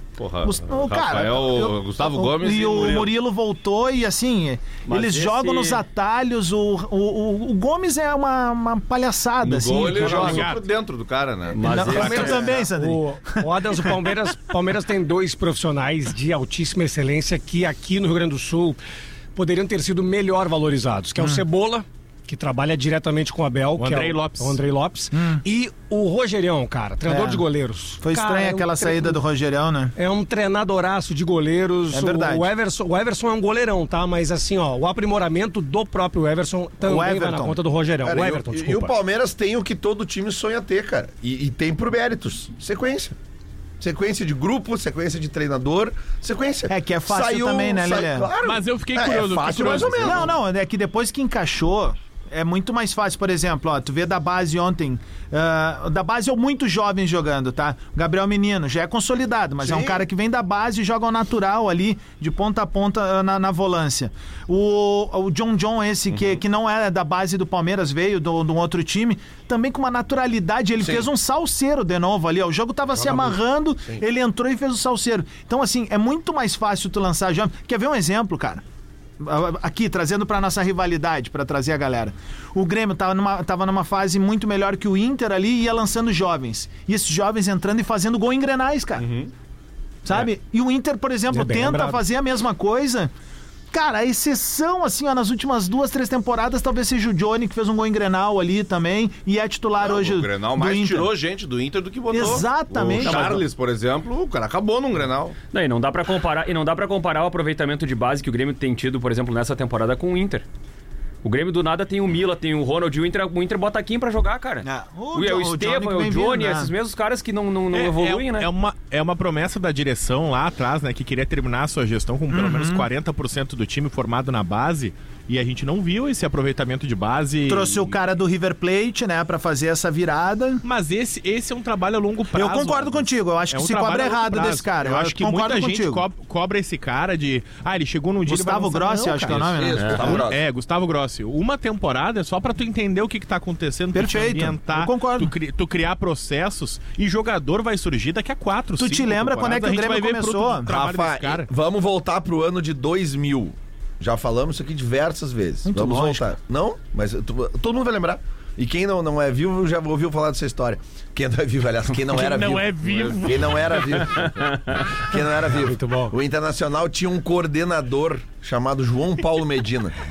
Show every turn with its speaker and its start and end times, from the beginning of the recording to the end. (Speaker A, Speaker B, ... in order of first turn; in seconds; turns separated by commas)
Speaker A: 0.2-3.1, Speaker B: 0.4-10.5, Speaker C: 4.8-5.8, Speaker A: 9.4-12.3, Speaker D: 10.0-10.7, Speaker C: 11.5-12.5, Speaker B: 11.6-14.3, Speaker E: 11.8-18.8, Speaker E: 19.4-29.2, Speaker D: 23.8-24.6, Speaker B: 25.1-25.4, Speaker B: 27.1-27.4, Speaker B: 28.0-29.9, Speaker E: 30.0-39.0, Speaker B: 31.9-32.5, Speaker B: 36.8-37.6, Speaker F: 38.0-43.2, Speaker F: 43.8-50.4, Speaker B: 46.7-48.3, Speaker D: 48.4-50.3, Speaker B: 50.0-78.6, Speaker F: 59.6-60.0, Speaker F: 70.8-71.1, Speaker B: 79.2-89.1, Speaker A: 89.0-89.3, Speaker B: 90.0-93.1, Speaker E: 91.3-92.0, Speaker B: 93.7-101.1, Speaker A: 99.8-105.4, Speaker B: 102.1-103.4, Speaker C: 103.0-103.4, Speaker C: 105.5-110.5, Speaker C: 111.2-118.5, Speaker B: 114.7-116.7, Speaker D: 117.7-127.9, Speaker B: 122.3-122.9, Speaker B: 127.5-130.6, Speaker D: 130.6-151.5, Speaker B: 132.3-136.1, Speaker B: 138.3-140.2, Speaker F: 139.3-140.4, Speaker C: 139.8-140.1, Speaker B: 143.9-145.3, Speaker B: 148.8-150.7, Speaker F: 150.7-170.0, Speaker B: 155.7-156.3, Speaker D: 162.1-164.0, Speaker A: 162.8-163.3, Speaker E: 165.5-166.1